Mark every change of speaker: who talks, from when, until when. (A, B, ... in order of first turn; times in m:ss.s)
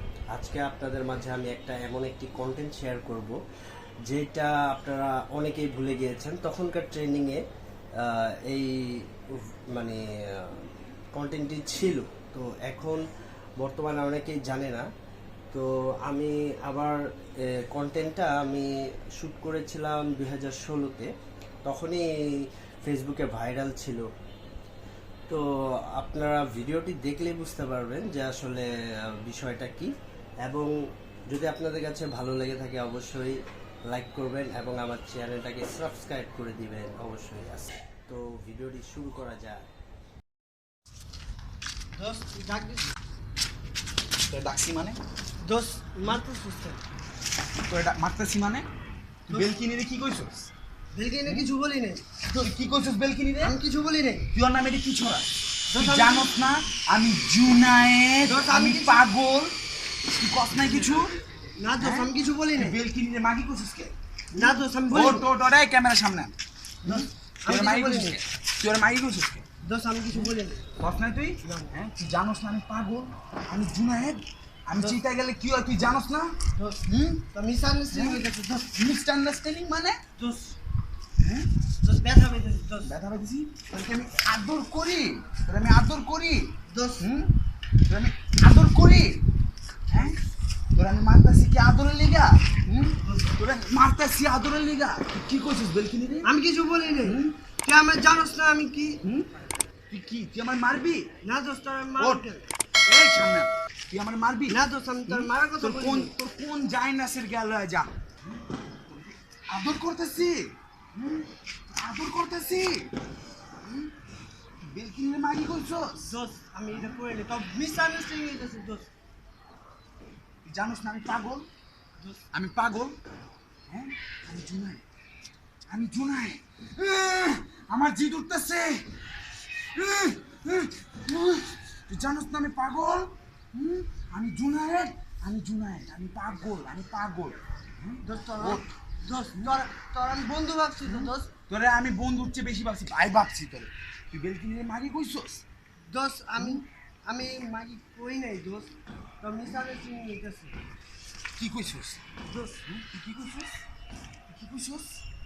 0:00.3-0:03.4 A
0:04.1-0:07.4 A
0:08.0-0:08.7 A
0:09.4-0:13.0 A
0:13.6-0:14.8 A
0:15.5-0:17.0 A
0:17.5-0:18.7 A
0:19.2-0:21.1 A
0:21.6-0:22.0 A
0:22.8-0:24.0 A
0:26.0-0:28.6 A
0:29.2-0:29.9 A
0:30.4-0:30.7 A
0:31.3-0:33.3 A
0:33.9-0:39.7 A
0:41.9-0:42.9 B
0:44.3-0:45.0 C
0:45.4-0:46.8 B
0:47.7-0:48.6 C
0:49.3-0:50.5 C
0:50.9-0:52.5 B
0:52.4-0:53.5 C
0:53.4-0:54.2 B
0:54.3-0:59.5 C
0:55.7-0:56.3 B
0:58.2-0:59.0 B
1:00.0-1:01.2 C
1:01.6-1:02.8 B
1:01.8-1:06.3 C
1:04.3-1:05.2 B
1:06.8-1:08.2 B
1:06.8-1:09.4 C
1:09.6-1:10.7 B
1:10.1-1:17.2 C
1:11.4-1:11.7 B
1:17.3-1:18.7 B
1:17.9-1:20.0 C
1:20.2-1:20.5 B
1:21.2-1:21.5 C
1:21.8-1:22.9 B
1:22.8-1:27.3 C
1:26.7-1:27.0 B
1:27.9-1:29.2 C
1:29.9-1:30.2 C
1:30.7-1:36.3 C
1:33.0-1:33.3 B
1:36.2-1:39.0 B
1:37.0-1:37.3 C
1:39.0-1:39.3 C
1:39.9-1:41.1 C
1:41.2-1:42.4 B
1:42.0-1:42.2 C
1:42.8-1:44.6 C
1:44.5-1:46.1 B
1:45.1-1:52.9 C
1:53.6-1:53.9 C
1:54.6-1:56.1 C
1:56.0-1:58.9 B
2:00.4-2:01.5 C
2:02.3-2:03.0 C
2:03.7-2:04.8 C
2:05.7-2:08.9 C
2:09.7-2:18.6 C
2:18.0-2:21.3 B
2:20.8-2:25.4 C
2:25.9-2:30.6 B
2:26.4-2:26.6 C
2:31.4-2:32.0 C
2:32.3-2:32.6 B
2:32.6-2:33.6 C
2:34.3-2:35.0 C